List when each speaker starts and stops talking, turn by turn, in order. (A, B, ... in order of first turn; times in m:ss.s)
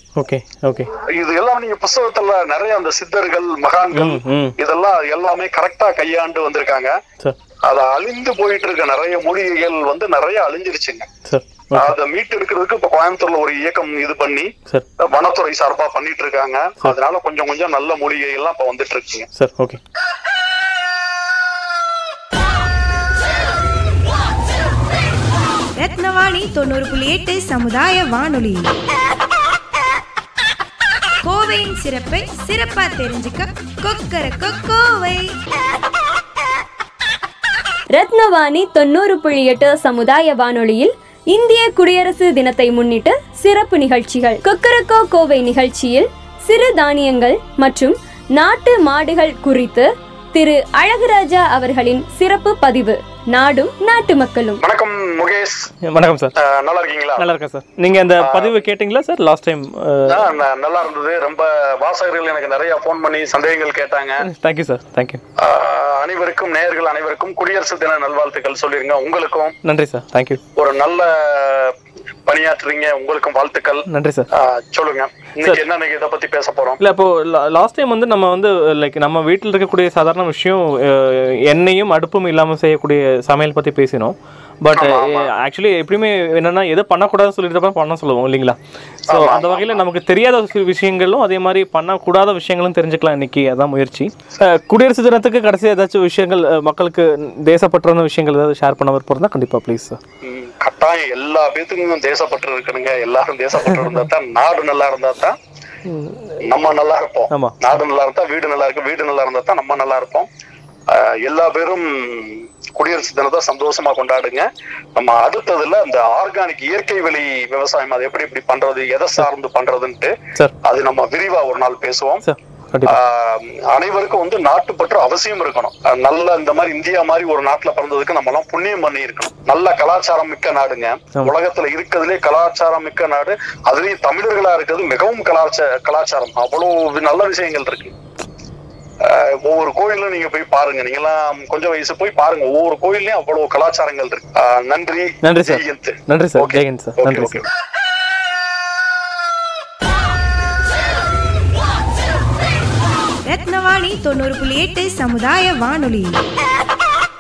0:00.2-0:00.9 A
0:01.0-0:06.9 B
0:03.9-0:04.6 A
0:07.7-0:11.1 B
0:11.3-0:12.0 A
0:11.8-0:19.3 B
0:19.4-0:19.8 A
0:25.8-0:28.6 C
0:31.2-0:35.2 C
0:37.9-0:54.6 D
0:54.6-0:55.7 B
0:55.9-0:56.3 A
0:56.4-0:57.3 B
0:57.2-1:00.3 A
0:58.2-0:58.6 B
1:00.1-1:04.2 B
1:04.2-1:05.2 A
1:05.4-1:09.6 B
1:09.7-1:10.4 A
1:10.6-1:11.7 B
1:12.3-1:16.8 B
1:13.9-1:14.3 A
1:16.8-1:40.0 A
1:24.8-1:25.3 B
1:29.1-1:29.8 B
1:40.2-1:45.4 B
1:43.6-1:44.1 A
1:45.9-1:46.4 A
1:46.4-1:50.3 B
1:47.3-1:47.6 A
1:50.9-2:02.2 B
2:02.2-2:03.0 A
2:02.9-2:17.9 B
2:19.0-2:27.4 B
2:25.2-2:27.5 A
2:33.3-2:36.1 C